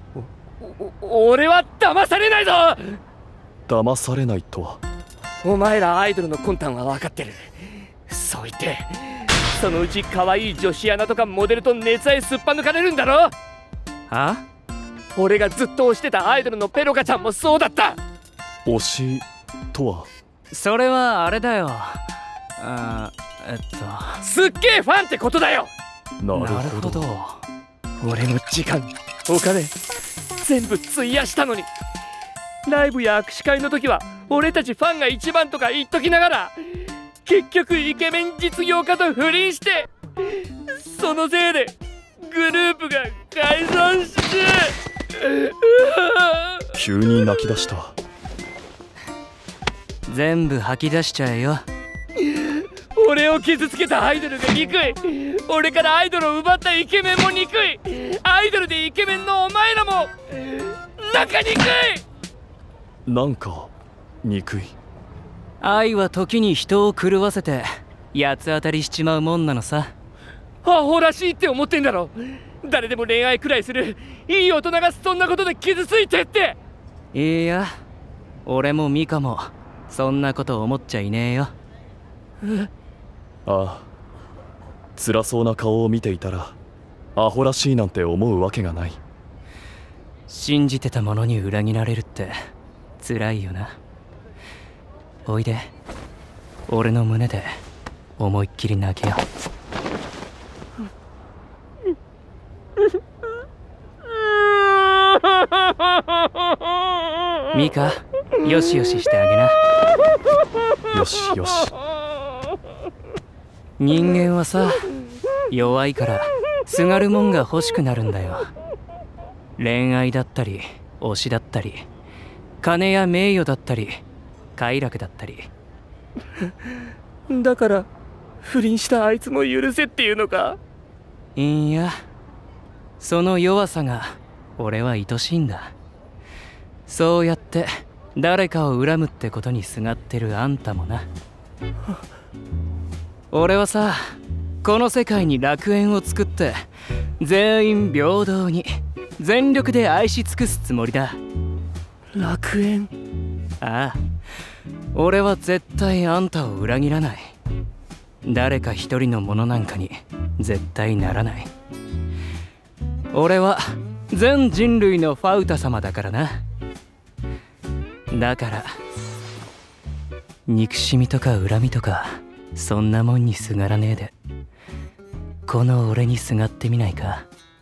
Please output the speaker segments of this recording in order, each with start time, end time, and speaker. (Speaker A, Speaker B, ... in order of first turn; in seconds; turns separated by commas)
Speaker A: 0.6-3.0, Speaker B: 3.7-4.8, Speaker A: 5.4-13.3, Speaker C: 14.1-14.4, Speaker A: 15.2-18.0, Speaker B: 18.6-20.1, Speaker C: 20.5-22.0, Speaker C: 22.6-24.2, Speaker A: 24.2-25.7, Speaker B: 26.2-27.0, Speaker C: 26.3-27.4, Speaker A: 28.0-29.8, Speaker A: 30.3-31.7, Speaker A: 32.6-36.5, Speaker A: 37.2-39.9, Speaker A: 40.7-46.6, Speaker B: 46.7-47.9, Speaker C: 50.1-51.6, Speaker A: 52.2-62.0, Speaker B: 63.0-63.7, Speaker B: 64.2-64.7, Speaker C: 65.6-69.9, Speaker A: 70.6-76.6, Speaker C: 77.1-77.7, Speaker C: 78.5-81.5, Speaker B: 83.5-83.9, Speaker B: 85.0-86.5, Speaker B: 87.2-89.0, Speaker C: 90.3-92.3, Speaker C: 93.0-93.8, Speaker C: 95.2-95.7, Speaker C: 96.7-97.5, Speaker C: 98.2-99.2, Speaker C: 107.5-109.5, Speaker B: 110.9-111.7, Speaker C: 113.8-114.8, Speaker C: 115.5-118.5, Speaker C: 119.6-121.8, Speaker C: 122.6-124.0, Speaker C: 124.5-125.5, Speaker A: 127.3-127.9, Speaker A: 128.4-130.6, Speaker C: 131.3-131.9, Speaker C: 133.0-135.7, Speaker C: 136.9-141.1, Speaker C: 143.3-146.6, Speaker C: 147.2-148.7, Speaker C: 149.2-151.2, Speaker A: 152.1-152.9, Speaker C: 153.6-154.0, Speaker C: 154.9-157.3, Speaker C: 158.2-161.5, Speaker C: 163.1-166.4, Speaker C: 168.1-168.7, Speaker C: 170.5-174.1, Speaker C: 175.5-177.2